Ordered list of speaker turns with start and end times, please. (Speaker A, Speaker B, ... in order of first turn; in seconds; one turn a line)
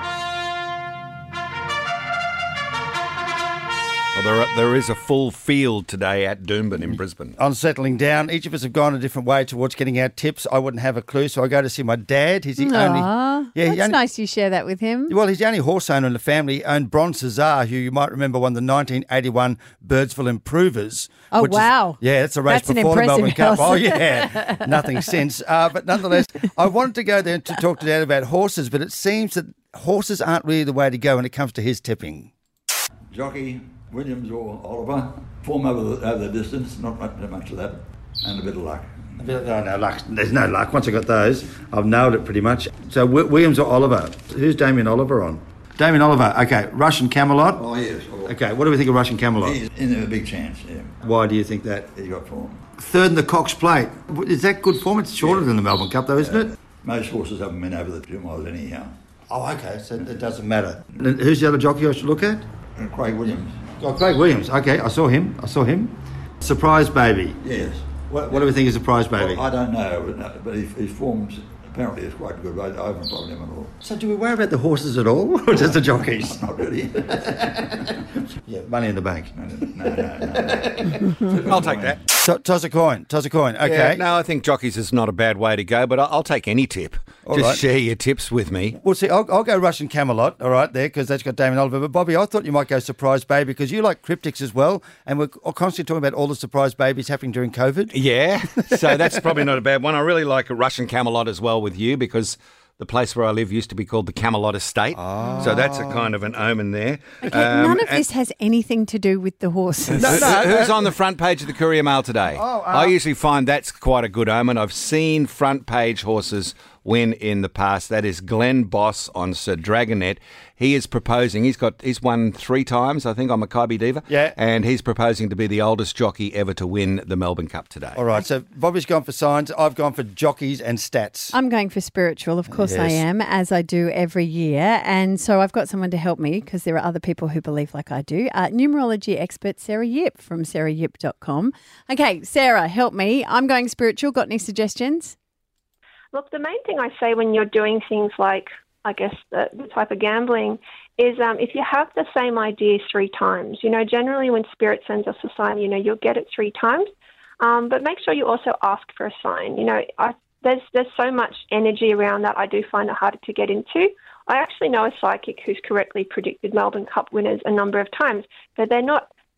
Speaker A: 4.1-7.3
Speaker B: 7.4-14.0
Speaker C: 12.6-15.1
Speaker B: 15.1-32.3
Speaker C: 21.3-24.8
Speaker D: 33.1-39.4
Speaker B: 39.2-47.7
Speaker D: 47.6-48.3
Speaker B: 48.2-49.6
Speaker D: 49.4-51.0
Speaker B: 51.0-51.9
Speaker D: 51.9-52.6
Speaker B: 52.8-56.5
Speaker D: 56.2-58.9
Speaker B: 59.3-62.5
Speaker D: 62.8-63.7
Speaker B: 63.8-67.4
Speaker D: 67.4-68.5
Speaker B: 68.1-69.4
Speaker D: 69.2-73.7
Speaker B: 73.8-76.4
Speaker D: 75.6-77.0
Speaker B: 77.1-77.9
Speaker B: 78.4-79.4
Speaker D: 79.3-82.0
Speaker B: 80.6-81.0
Speaker A: 81.3-82.0
Speaker B: 82.1-84.0
Speaker A: 83.6-88.8
Speaker B: 87.2-87.6
Speaker B: 88.7-97.9
Speaker A: 97.9-108.0
Speaker B: 98.7-99.2
Speaker B: 104.9-106.1
Speaker C: 107.2-110.3
Speaker A: 109.9-128.0
Speaker B: 110.0-110.9
Speaker B: 112.3-112.9
Speaker B: 124.1-124.3
Speaker B: 127.9-131.3
Speaker C: 131.3-145.2
Speaker B: 132.5-133.0
Speaker E: 146.1-156.9
Speaker E: 157.4-169.1